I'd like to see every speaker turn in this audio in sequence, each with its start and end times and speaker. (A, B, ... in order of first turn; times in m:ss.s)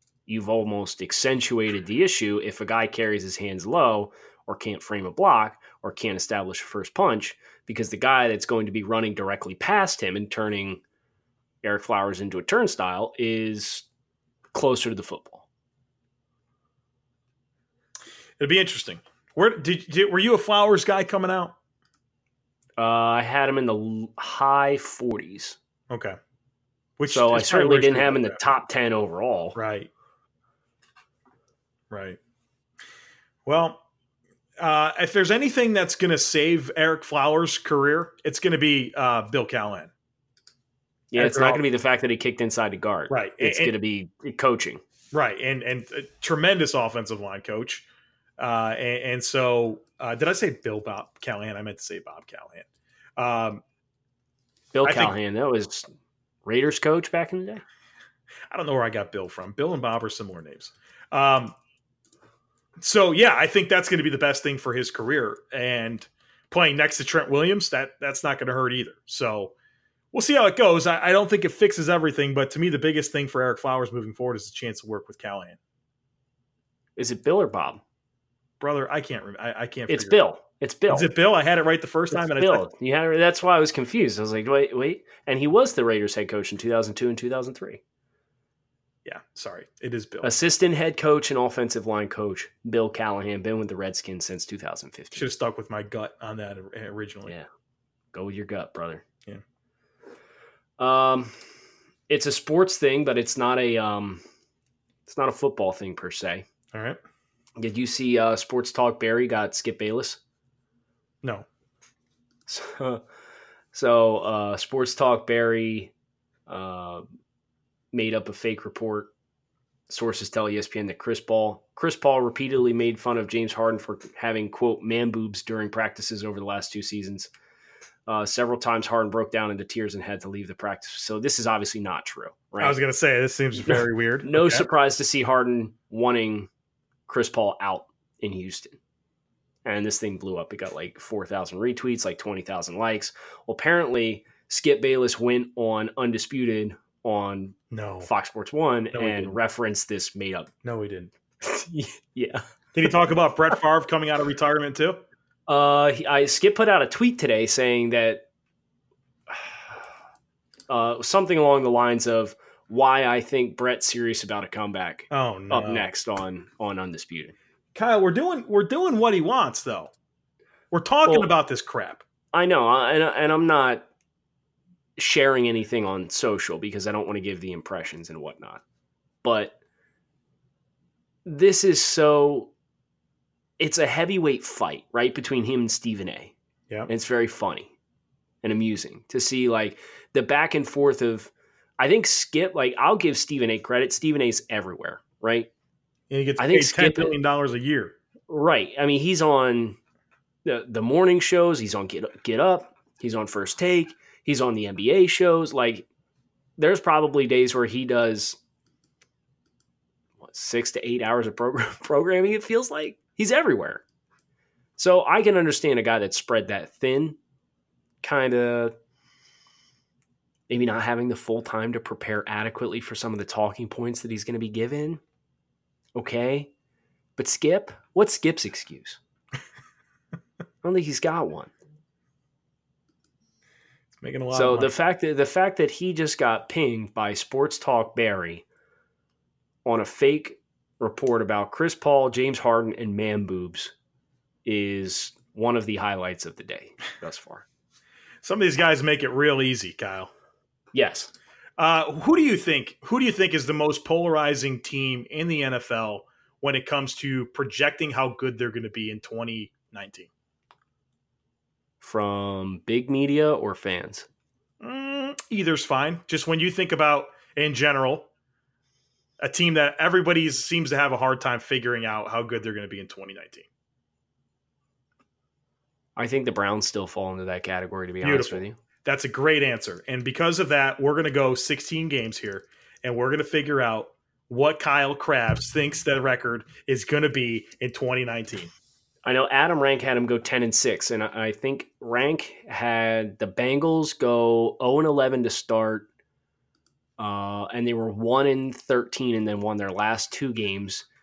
0:00.2-0:10.8 A
0:11.6-0:13.8 A
0:14.5-0:15.4 A
0:18.4-0:21.5 B
0:22.8-0:25.6 A
0:25.9-0:26.2 B
0:27.0-0:28.5 B
0:27.1-0:29.6 A
0:29.5-0:29.9 B
0:31.9-0:32.2 B
0:33.4-0:33.8 B
0:34.6-0:39.9 B
0:41.1-0:44.8 A
0:41.1-0:41.6 B
0:43.1-0:43.7 B
0:45.1-0:47.8 B
0:48.4-0:53.6 B
0:54.7-0:55.9 A
0:54.8-0:55.1 B
0:56.4-0:57.6 A
0:58.5-1:01.5 B
1:02.8-1:09.5 B
1:10.1-1:15.6 B
1:17.0-1:17.8 A
1:18.6-1:20.2 B
1:19.9-1:21.1 A
1:20.9-1:22.6 B
1:22.1-1:27.8 A
1:29.0-1:30.3 B
1:30.2-1:35.3 A
1:35.2-1:37.3 B
1:38.1-1:39.0 A
1:40.8-1:41.3 A
1:42.1-1:44.2 A
1:45.0-1:46.5 A
1:46.7-1:47.0 B
1:47.6-1:50.2 A
1:52.5-1:53.0 A
1:53.7-1:55.9 A
1:56.5-1:57.0 A
1:57.9-1:59.1 A
1:59.9-2:07.3 A
2:08.1-2:12.8 A
2:12.6-2:14.6 B
2:13.6-2:16.5 A
2:17.1-2:18.8 A
2:19.6-2:30.5 A
2:27.7-2:28.1 B
2:28.9-2:29.4 B
2:30.6-2:31.1 B
2:31.4-2:32.4 A
2:32.7-2:35.0 B
2:35.5-2:38.2 A
2:40.7-2:47.3 A
2:45.1-2:45.9 B
2:47.7-2:49.9 B
2:50.7-2:52.0 B
2:51.0-2:51.3 A
2:52.3-2:53.8 A
2:55.0-2:58.6 A
2:59.2-2:59.6 A
3:01.2-3:02.5 A
3:03.6-3:06.3 A
3:06.9-3:07.7 A
3:08.4-3:15.5 A
3:16.1-3:17.9 B
3:16.4-3:17.2 A
3:18.3-3:19.8 A
3:20.4-3:25.8 A
3:26.6-3:28.4 A
3:30.2-3:33.8 A
3:34.8-3:37.2 A
3:38.0-3:38.7 A
3:40.5-3:45.0 A
3:45.9-3:46.5 A
3:47.2-3:49.0 A
3:50.6-3:51.5 A
3:54.0-3:54.7 B
3:54.3-3:58.4 A
3:59.6-4:03.7 A
4:04.4-4:07.4 A
4:08.2-4:10.1 B
4:10.7-4:11.1 A
4:11.6-4:20.1 B
4:21.8-4:24.1 A
4:24.6-4:28.1 B
4:29.2-4:33.4 B
4:36.0-4:38.6 A
4:38.0-4:48.5 B
4:49.0-4:55.9 A
4:57.0-5:00.8 A